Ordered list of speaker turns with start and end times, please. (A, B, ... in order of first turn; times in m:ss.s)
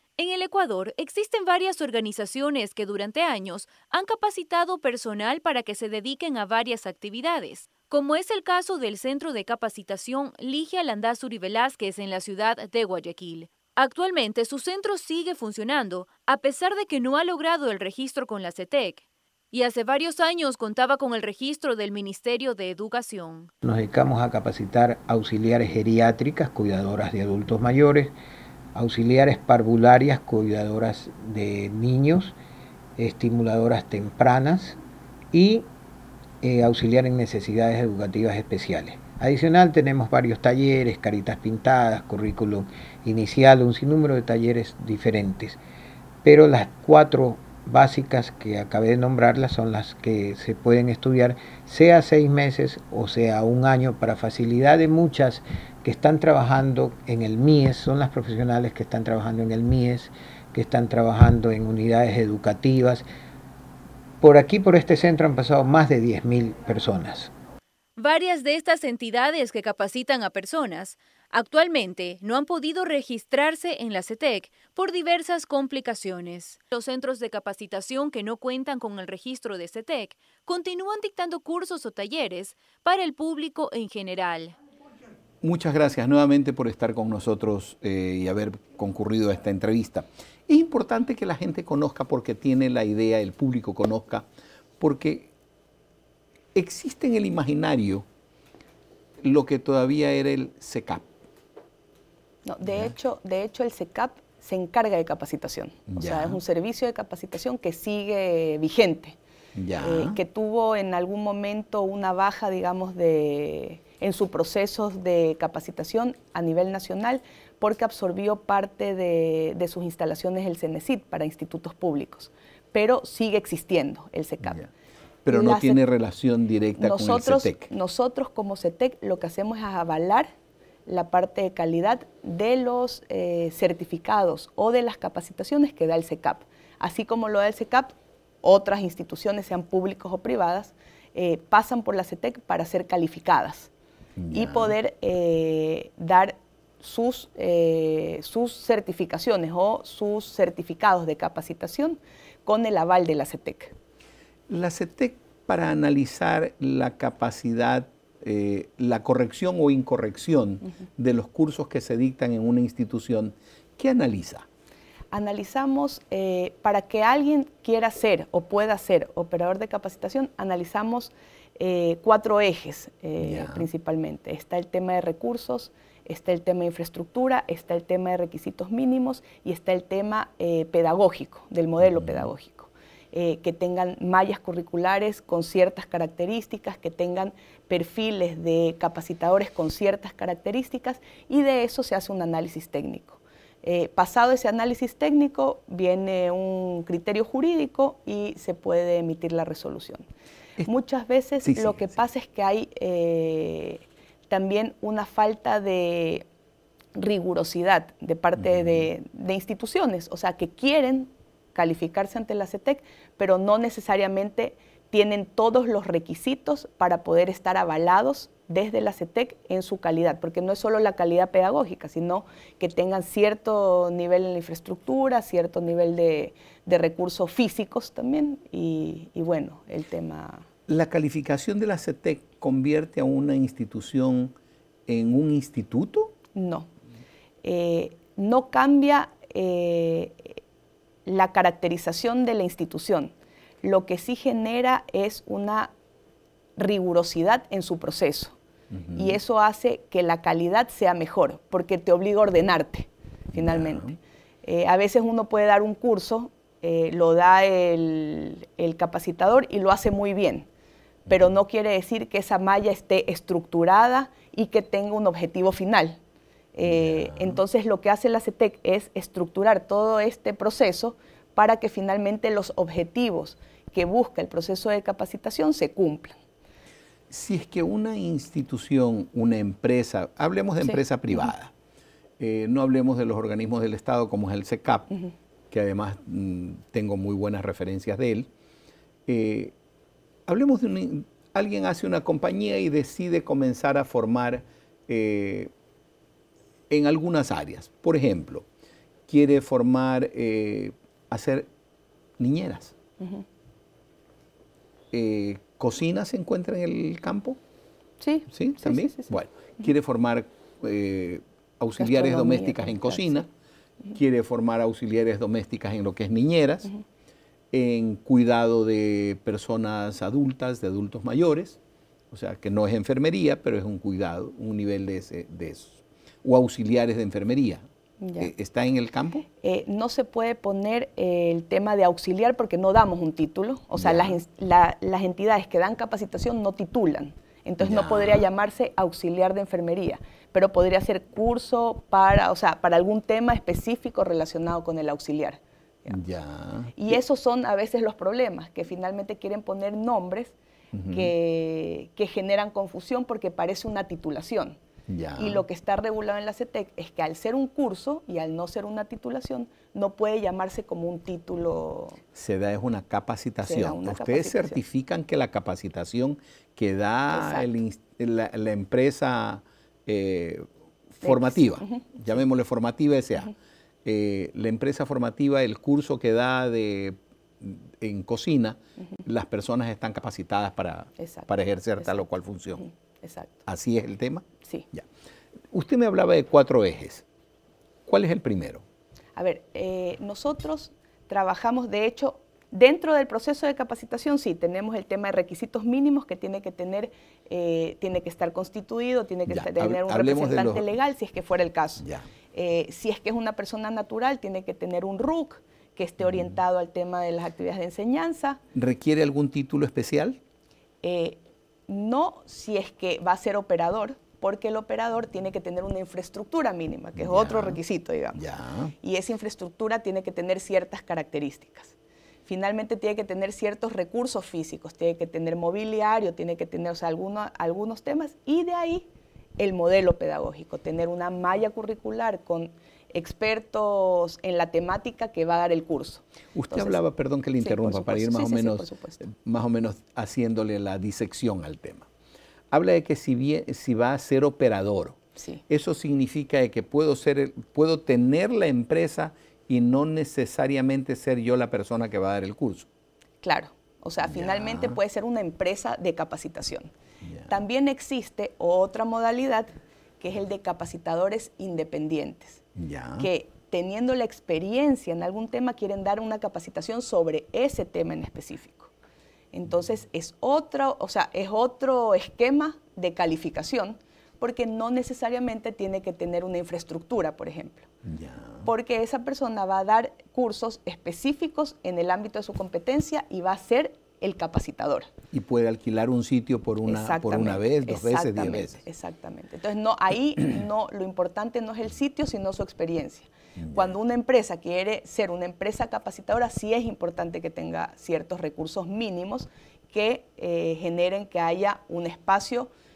0:00.2-0:23.5 A
0:23.6-0:28.1 B
0:28.7-0:32.3 B
0:33.0-0:34.8 B
0:35.3-0:35.7 B
0:36.4-0:45.6 B
0:46.2-1:03.0 B
1:04.2-1:07.3 B
1:08.0-1:24.6 A
1:25.4-1:34.3 C
1:34.8-1:35.3 C
1:36.5-1:38.0 C
1:39.2-1:41.0 C
1:42.4-1:49.2 D
1:45.9-1:46.4 C
1:49.5-1:50.2 C
1:49.8-2:04.6 D
2:04.4-2:04.7 C
2:05.2-2:07.7 C
2:05.3-2:05.8 D
2:06.8-2:10.3 D
2:10.9-2:23.7 D
2:24.2-2:24.7 C
2:24.3-2:33.7 D
2:34.5-2:44.4 C
2:45.1-3:20.0 D
2:53.2-2:53.7 C
3:01.8-3:02.2 C
3:20.6-3:26.2 D
3:21.4-3:21.9 C
3:27.0-3:50.4 D
3:28.4-3:28.8 C
3:50.7-3:54.3 C
3:54.9-3:56.1 C
3:56.3-3:56.7 D
3:57.4-4:00.4 D
4:01.0-4:05.7 D
4:06.6-4:08.3 D
4:08.7-4:09.2 C
4:08.9-4:20.5 D
4:13.3-4:14.0 C
4:21.1-4:26.0 D
4:26.5-4:36.1 D
4:26.6-4:27.4 C
4:37.1-4:41.5 C
4:40.6-4:41.3 D
4:42.2-4:44.9 C
4:45.5-4:48.3 C
4:49.1-4:49.5 C
4:50.2-4:55.5 C
4:56.7-4:58.4 C
4:59.1-5:01.5 C
5:02.2-5:02.7 C
5:03.0-5:03.2 D
5:04.9-5:07.4 C
5:08.0-5:09.1 D
5:08.3-5:13.3 C
5:11.8-5:13.1 D
5:13.9-5:16.7 C
5:17.5-5:21.6 C
5:22.1-5:27.6 C
5:28.0-5:28.3 D
5:28.2-5:29.2 C
5:29.2-5:46.0 D
5:33.7-5:34.2 C
5:37.6-5:38.2 C
5:45.9-5:46.8 C
5:46.7-5:50.3 D
5:50.7-5:51.1 C
5:50.9-5:54.6 D
5:54.9-5:55.4 C
5:55.2-6:02.0 D
6:02.1-6:10.5 C
6:03.4-6:04.6 D
6:07.1-6:07.5 D
6:11.0-6:13.3 C
6:11.0-6:11.8 D
6:13.8-6:22.6 C
6:21.0-6:22.0 D
6:22.6-6:23.4 D
6:23.4-6:24.8 C
6:25.5-6:27.0 C
6:27.8-6:28.6 C
6:29.2-6:48.4 D
6:39.3-6:40.6 C
6:41.8-6:42.1 C
6:48.5-6:50.2 C
6:50.8-6:58.2 D
6:57.0-6:57.6 C
6:58.2-6:58.7 C
6:58.8-7:08.9 D
7:09.4-7:16.8 D
7:16.3-7:21.9 C
7:17.4-7:19.0 D
7:22.5-7:25.0 C
7:25.2-7:25.4 D
7:25.5-7:32.7 C
7:33.2-7:36.7 D
7:34.0-7:34.8 C
7:37.0-7:37.3 C
7:37.3-7:39.5 D
7:40.0-7:42.4 D
7:42.6-7:43.1 C
7:43.0-7:48.7 D
7:49.3-7:57.7 D
7:57.8-7:58.5 C
7:58.4-8:04.9 D
8:05.1-8:08.6 C
8:06.6-8:22.5 D
8:13.4-8:13.7 C